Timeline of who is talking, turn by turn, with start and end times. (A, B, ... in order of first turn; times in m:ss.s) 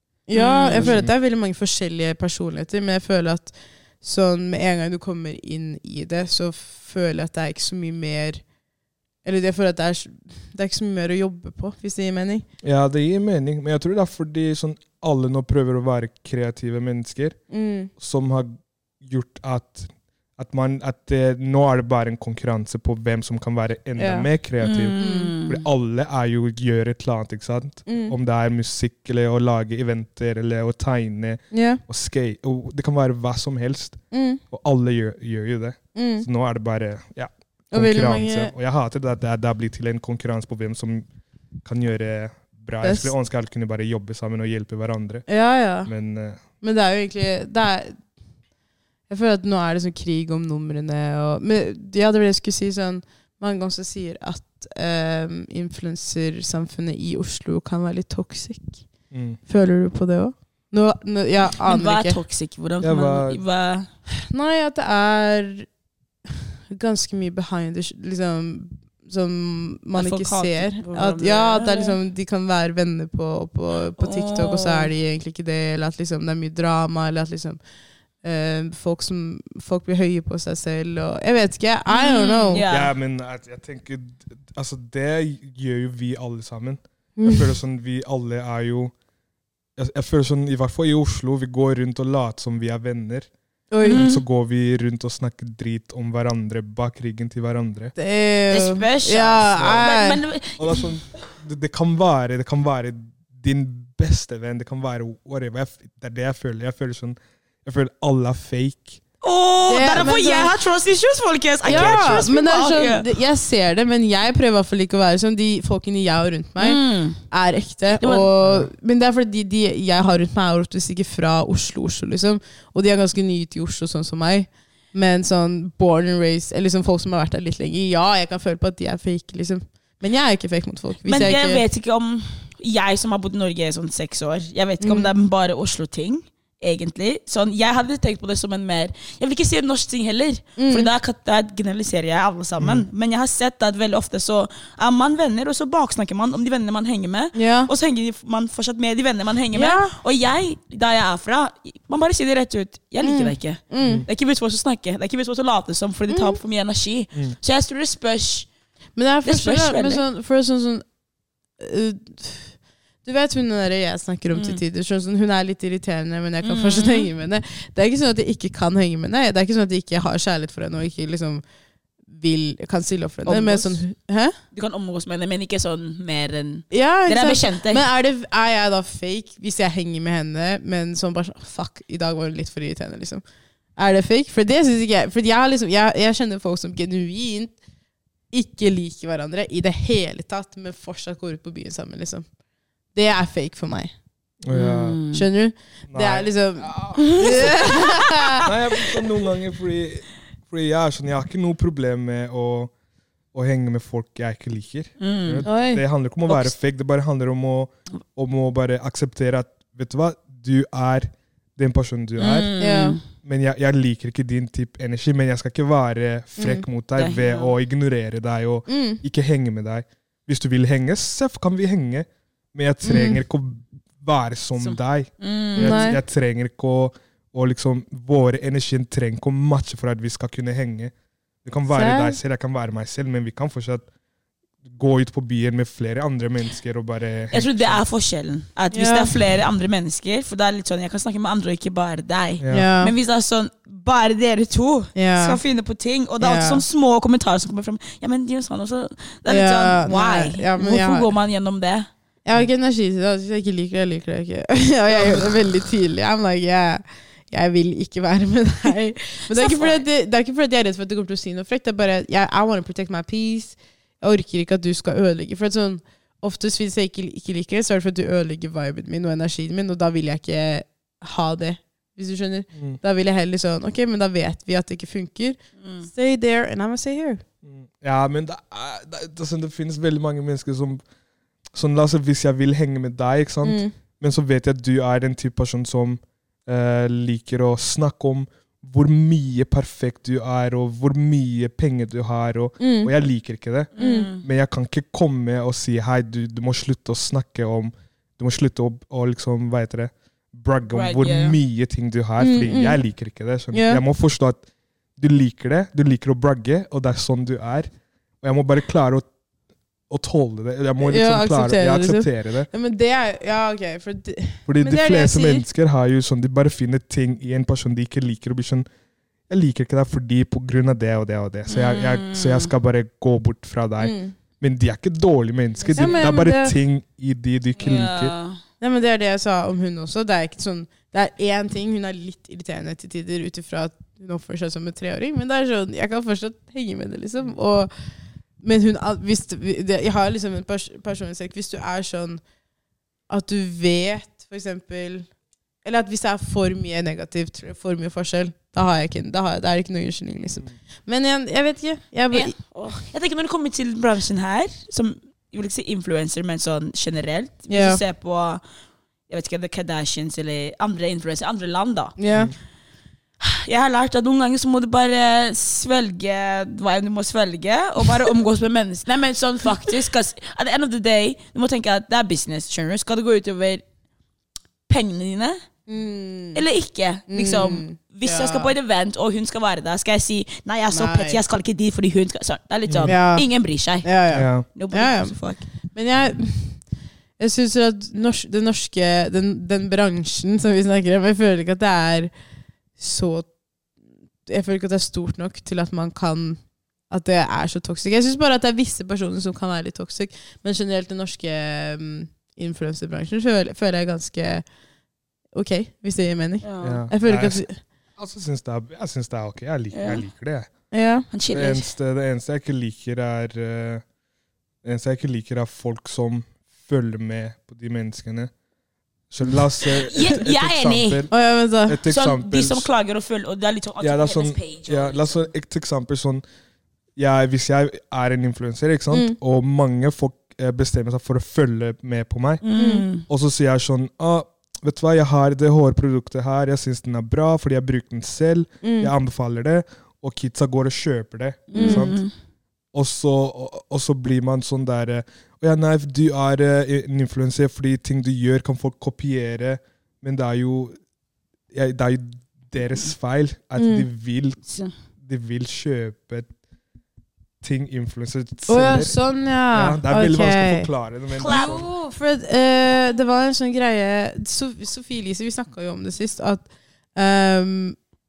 0:00.3-0:08.4 A
0:00.3-0:01.0 B
0:00.7-0:01.1 C
0:09.2-0:12.4 A
0:12.6-0:17.4 C
0:17.5-0:17.9 A
0:18.0-0:41.1 C
0:24.0-0:24.3 A
0:24.6-0:25.6 B
0:25.0-0:25.3 A
0:27.9-0:28.1 A
0:31.5-0:31.8 A
0:34.1-0:34.4 A
0:35.9-0:36.2 A
0:37.7-0:38.5 A
0:41.6-0:45.2 C
0:42.8-0:43.1 A
0:45.3-0:45.9 A
0:45.8-0:46.4 C
0:46.6-0:48.0 A
0:49.1-0:58.8 A
0:59.1-0:59.4 C
0:59.4-1:02.2 A
1:01.6-1:03.9 B
1:02.8-1:03.4 C
1:04.2-1:05.7 A
1:06.7-1:17.6 A
1:09.9-1:12.0 B
1:14.0-1:14.9 B
1:18.2-1:22.6 A
1:21.9-1:22.9 B
1:22.6-1:28.9 C
1:27.2-1:27.5 A
1:29.8-1:33.3 C
1:33.7-1:34.0 A
1:33.8-1:37.9 C
1:33.8-1:34.2 B
1:38.0-1:40.2 A
1:38.5-1:40.9 B
1:40.6-1:49.0 C
1:49.2-1:53.1 B
1:49.7-1:50.5 A
1:51.6-1:52.3 C
1:51.6-2:11.6 A
1:56.6-1:57.2 B
1:58.0-1:58.3 B
1:58.4-1:58.7 C
2:11.0-2:38.5 B
2:14.8-2:15.1 A
2:20.6-2:20.9 A
2:22.6-2:22.8 C
2:27.3-2:27.7 A
2:29.5-2:30.0 A
2:33.0-2:34.0 A
2:33.8-2:34.1 C
2:36.1-2:36.4 A
2:39.0-2:40.8 A
2:39.2-2:40.0 B
2:41.6-2:51.4 A
2:44.3-2:44.6 B
2:46.4-2:47.1 B
2:52.1-2:54.3 A
2:53.2-2:53.8 B
2:54.5-2:57.8 B
2:56.7-3:03.2 A
3:03.8-3:07.5 A
3:08.3-3:12.2 A
3:12.9-3:13.9 A
3:14.4-3:15.0 C
3:14.5-3:15.2 B
3:15.1-3:18.5 A
3:15.9-3:17.8 C
3:18.4-3:22.7 C
3:23.3-3:32.5 C
3:25.0-3:25.4 B
3:25.4-3:25.8 A
3:26.3-3:26.5 B
3:32.2-3:33.0 B
3:32.6-3:33.0 A
3:33.2-3:50.9 C
3:36.4-3:36.6 A
3:37.0-3:37.5 B
3:38.7-3:39.0 A
3:42.8-3:43.2 A
3:44.6-3:45.9 B
3:45.6-3:46.0 A
3:51.4-3:53.9 C
3:51.7-3:52.2 A
3:54.6-3:57.8 C
3:57.3-4:11.9 B
3:58.7-3:59.1 A
4:02.4-4:02.7 C
4:02.5-4:02.9 A
4:04.9-4:05.4 A
4:06.2-4:06.6 A
4:09.3-4:11.1 A
4:12.2-4:37.2 A
4:19.3-4:19.8 B
4:32.5-4:32.8 C
4:35.6-4:35.9 B
4:37.4-4:40.8 C
4:41.5-5:04.4 C
4:43.4-4:43.7 A
4:52.6-4:52.9 A
4:53.8-4:54.2 B
4:53.8-4:54.1 A
5:00.7-5:01.4 B
5:02.2-5:02.8 A
5:03.5-5:03.8 A
5:05.0-5:07.7 C
5:08.2-5:09.0 C
5:09.9-5:12.5 C
5:10.8-5:15.4 A
5:14.5-5:18.6 C
5:19.3-5:28.1 C
5:21.5-5:22.5 B
5:23.8-5:24.1 A
5:25.6-5:26.0 B
5:25.7-5:26.6 A
5:27.6-5:28.4 B
5:28.6-5:37.7 A
5:38.4-5:42.2 A
5:43.1-5:45.1 A
5:45.6-5:52.3 A
5:52.1-5:58.4 B
5:57.5-5:57.8 A
5:59.1-6:01.9 B
6:02.0-6:02.3 A
6:03.2-6:13.6 B
6:14.7-6:15.4 B
6:15.7-6:16.4 A
6:16.3-6:23.9 B
6:17.1-6:18.5 A
6:20.7-6:21.2 A
6:22.7-6:22.9 C
6:22.8-6:23.2 A
6:23.8-6:25.1 A
6:24.1-6:24.4 C
6:24.4-6:25.4 B
6:25.7-6:26.6 A
6:27.2-6:32.1 A
6:32.8-6:33.3 A
6:34.2-6:44.4 A
6:45.3-6:47.6 A
6:46.4-6:46.8 B
6:46.6-6:47.4 C
6:48.0-6:50.5 C
6:49.7-6:50.0 B
6:50.7-6:51.0 A
6:51.1-6:51.7 B
6:51.3-6:53.8 C
6:54.6-6:58.3 C
6:59.1-7:01.1 C
6:59.6-7:01.0 B
7:01.1-7:01.8 A
7:01.6-7:02.7 C
7:01.9-7:05.3 B
7:03.8-7:06.2 C
7:07.0-7:12.4 C
7:12.4-7:13.0 B
7:12.6-7:12.8 A
7:13.0-7:22.0 C
7:18.6-7:18.9 A
7:21.5-7:22.1 B
7:21.5-7:21.9 A
7:22.7-7:30.7 C
7:31.5-7:34.4 C
7:33.6-7:33.9 A
7:34.5-7:34.7 B
7:35.0-7:36.3 C
7:37.4-7:39.0 C
7:38.5-7:40.7 A
7:39.5-7:41.7 C
7:41.1-7:41.7 B
7:41.2-7:47.8 A